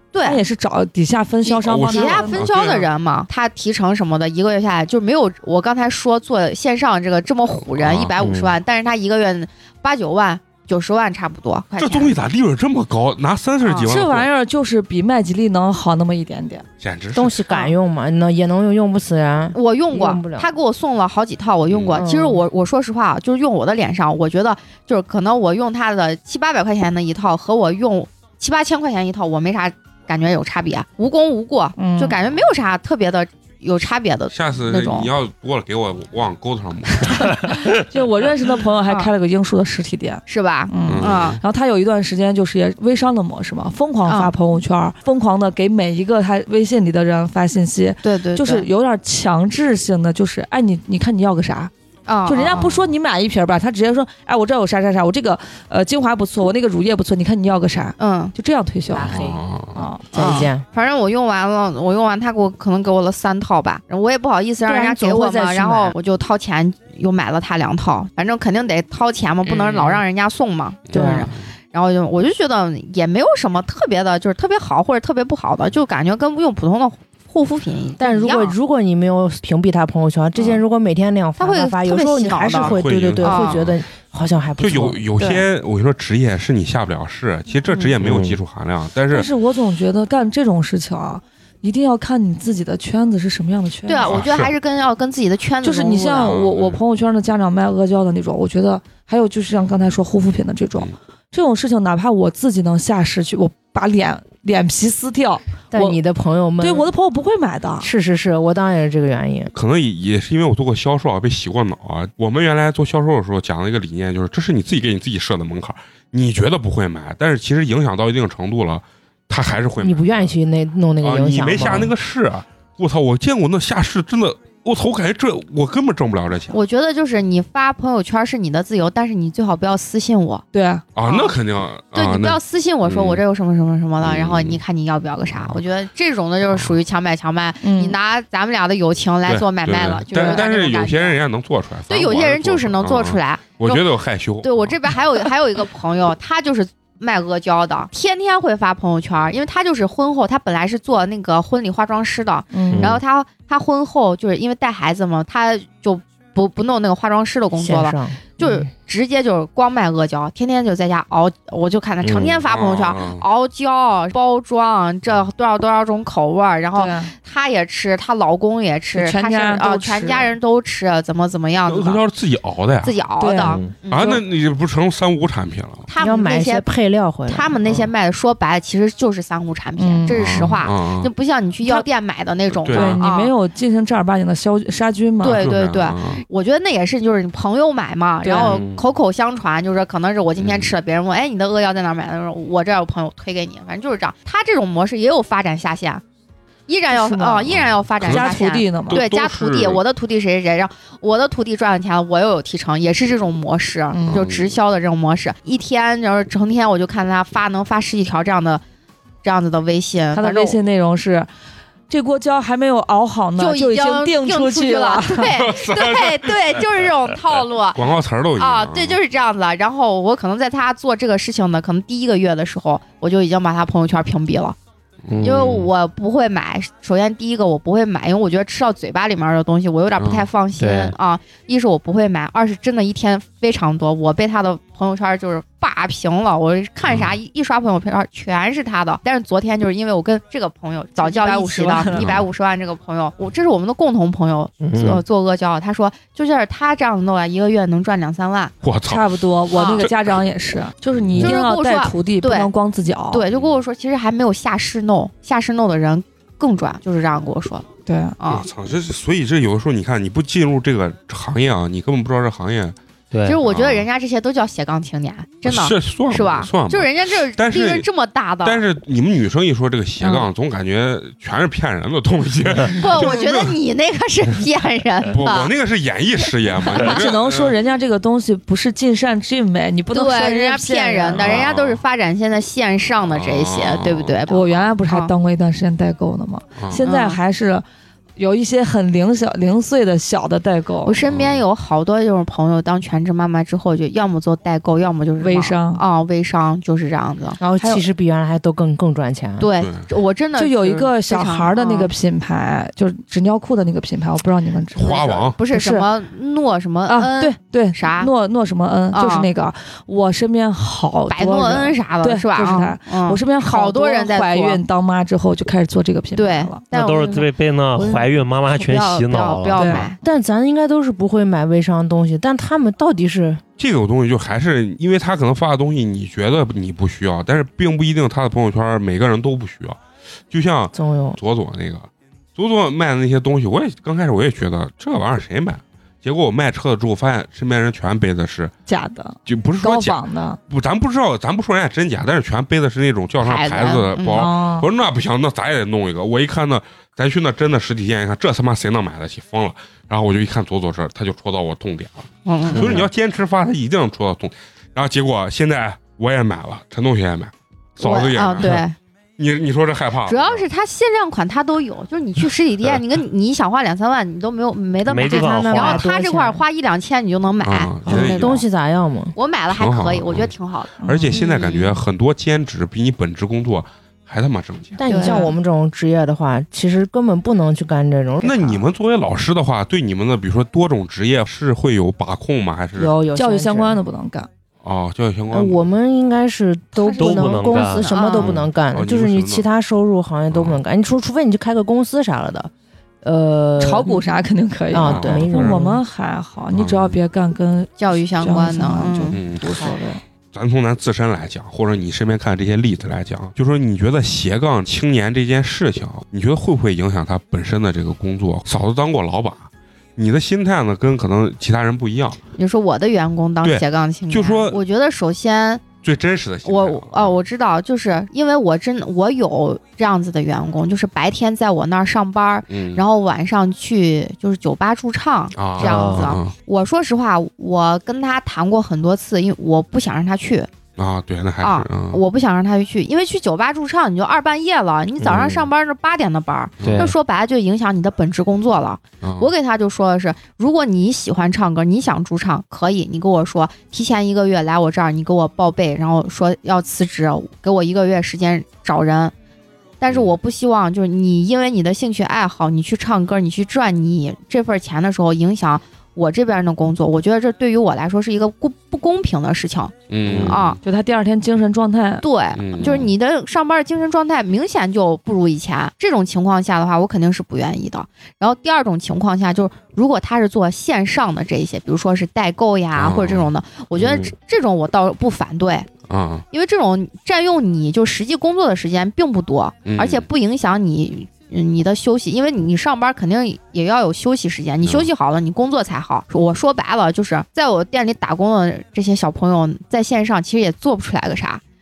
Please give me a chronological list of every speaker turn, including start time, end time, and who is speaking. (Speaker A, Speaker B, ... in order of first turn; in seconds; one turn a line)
Speaker A: 0.1-0.4
Speaker B: 0.2-2.5
Speaker A: 1.4-12.2
Speaker C: 1.6-2.9
Speaker C: 7.7-8.1
Speaker D: 8.2-8.5
Speaker C: 11.8-14.3
Speaker A: 13.6-13.9
Speaker B: 13.8-16.6
Speaker C: 16.8-17.4
Speaker E: 17.1-20.5
Speaker A: 17.5-17.7
Speaker A: 19.5-35.1
Speaker C: 21.7-22.0
Speaker E: 21.9-22.4
Speaker B: 31.8-32.2
Speaker C: 34.3-37.5
Speaker B: 37.2-51.7
Speaker A: 40.3-41.4
Speaker C: 40.9-41.4
Speaker A: 44.0-44.3
Speaker A: 48.0-48.7
Speaker A: 52.0-52.8
Speaker B: 52.2-59.2
Speaker A: 58.0-58.3
Speaker E: 58.9-59.4
Speaker C: 59.1-59.9
Speaker B: 59.7-60.4
Speaker E: 60.1-60.6
Speaker A: 60.1-78.5
Speaker E: 64.7-65.9
Speaker C: 70.9-71.5
Speaker E: 70.9-71.3
Speaker E: 78.0-85.1
Speaker A: 81.4-83.6
Speaker C: 82.6-83.8
Speaker C: 84.6-89.3
Speaker A: 85.2-85.4
Speaker D: 88.0-88.4
Speaker B: 89.1-94.3
Speaker A: 93.9-96.3
Speaker C: 94.0-94.5
Speaker B: 95.6-106.0
Speaker C: 96.2-96.8
Speaker E: 105.7-106.9
Speaker B: 106.6-107.9
Speaker E: 107.8-109.5
Speaker C: 109.5-120.3
Speaker E: 119.8-121.9
Speaker C: 121.0-126.6
Speaker A: 126.5-130.4
Speaker B: 130.5-130.8
Speaker C: 130.9-133.2
Speaker A: 131.0-131.4
Speaker A: 131.9-141.2
Speaker C: 134.0-134.6
Speaker C: 135.3-135.6
Speaker B: 137.6-137.9
Speaker C: 139.3-145.0
Speaker B: 140.1-140.4
Speaker A: 141.9-172.0
Speaker B: 152.5-152.9
Speaker D: 152.7-153.0
Speaker E: 157.6-158.7
Speaker D: 162.0-162.4
Speaker C: 162.4-163.2
Speaker B: 166.8-167.1
Speaker B: 168.9-170.3
Speaker C: 171.7-173.0
Speaker A: 172.8-174.2
Speaker B: 173.2-173.7
Speaker D: 173.4-173.7
Speaker C: 173.9-175.9
Speaker A: 175.9-176.7
Speaker E: 176.0-177.9
Speaker A: 177.3-183.3
Speaker B: 179.8-180.6
Speaker C: 180.1-181.1
Speaker C: 182.6-183.0
Speaker B: 182.7-185.4
Speaker A: 185.2-196.0
Speaker C: 185.2-186.2
Speaker B: 188.2-188.6
Speaker D: 188.4-188.8
Speaker C: 190.4-190.7
Speaker A: 196.7-208.6
Speaker B: 196.9-197.5
Speaker C: 197.5-199.8
Speaker B: 198.0-199.0
Speaker B: 203.9-204.2
Speaker C: 204.1-204.5
Speaker A: 209.2-210.6
Speaker B: 210.1-211.3
Speaker B: 211.9-215.3
Speaker A: 213.4-217.8
Speaker C: 215.4-216.3
Speaker C: 217.7-219.0
Speaker A: 218.3-224.6
Speaker C: 225.1-225.7
Speaker D: 225.1-225.6
Speaker A: 225.2-248.5
Speaker C: 230.0-230.2
Speaker D: 230.6-230.9
Speaker C: 236.9-237.1
Speaker B: 241.0-242.2
Speaker C: 241.9-242.2
Speaker D: 244.6-245.0
Speaker C: 248.6-249.1
Speaker B: 248.8-253.2
Speaker A: 249.5-249.9
Speaker C: 249.8-250.2
Speaker C: 250.9-251.3
Speaker A: 251.2-252.5
Speaker A: 253.1-258.4
Speaker C: 253.3-253.6
Speaker B: 257.9-258.2
Speaker C: 258.3-262.8
Speaker D: 263.1-263.4
Speaker A: 263.2-268.6
Speaker C: 263.4-263.9
Speaker C: 265.4-267.9
Speaker C: 268.4-273.6
Speaker A: 272.7-275.5
Speaker C: 275.1-277.6
Speaker B: 276.8-281.4
Speaker A: 279.9-285.1
Speaker C: 281.1-281.8
Speaker C: 283.1-284.2
Speaker B: 284.3-287.6
Speaker C: 286.6-286.8
Speaker A: 286.8-287.2
Speaker B: 288.1-291.1
Speaker A: 290.8-297.8
Speaker C: 291.0-291.4
Speaker B: 295.2-295.8
Speaker E: 297.4-299.5
Speaker A: 299.4-301.9
Speaker C: 299.6-299.9
Speaker B: 300.4-305.9
Speaker C: 304.7-305.4
Speaker A: 304.8-308.1
Speaker B: 306.9-316.6
Speaker A: 308.9-309.3
Speaker A: 311.1-314.6
Speaker A: 316.1-320.0
Speaker D: 316.7-319.9
Speaker B: 319.5-319.9
Speaker E: 320.0-323.4
Speaker C: 323.6-329.8
Speaker C: 330.3-338.5
Speaker E: 330.7-331.2
Speaker B: 338.6-340.4
Speaker C: 339.2-358.6
Speaker A: 343.2-344.2
Speaker B: 344.1-344.7
Speaker A: 352.2-352.9
Speaker A: 357.8-358.8
Speaker C: 359.2-360.4
Speaker A: 360.1-368.4
Speaker D: 364.9-365.8
Speaker E: 365.0-366.4
Speaker C: 367.4-368.4
Speaker E: 367.9-369.1
Speaker A: 369.1-371.8
Speaker C: 369.5-370.3
Speaker B: 370.8-371.2
Speaker C: 370.9-374.8
Speaker E: 374.8-378.6
Speaker A: 374.9-375.3
Speaker B: 375.0-375.3
Speaker C: 378.2-383.0
Speaker E: 382.8-383.8
Speaker B: 383.1-384.3
Speaker C: 384.6-385.7
Speaker E: 385.3-392.5
Speaker A: 386.8-388.4
Speaker D: 387.0-388.5
Speaker C: 388.7-389.4
Speaker C: 390.3-390.6
Speaker E: 393.0-394.0
Speaker B: 393.6-400.0
Speaker E: 394.7-395.8
Speaker C: 394.8-395.6
Speaker C: 396.5-397.0
Speaker A: 397.8-399.2
Speaker C: 399.1-399.5
Speaker C: 400.3-412.2
Speaker A: 412.4-415.6
Speaker C: 413.4-414.6
Speaker C: 415.8-417.1
Speaker A: 416.4-430.5
Speaker C: 422.5-422.8
Speaker C: 425.3-426.3
Speaker D: 425.6-426.1
Speaker C: 430.8-432.0
Speaker A: 431.4-449.1
Speaker D: 435.1-435.3
Speaker C: 435.1-435.4
Speaker C: 436.6-436.9
Speaker D: 436.6-436.9
Speaker C: 439.0-439.3
Speaker A: 449.8-460.6
Speaker C: 459.9-460.6
Speaker D: 460.0-460.4
Speaker B: 460.6-462.1
Speaker A: 462.0-475.7
Speaker C: 462.3-462.9
Speaker C: 472.8-473.3
Speaker D: 473.8-474.1
Speaker C: 475.9-476.2
Speaker A: 476.3-491.4
Speaker C: 479.6-480.1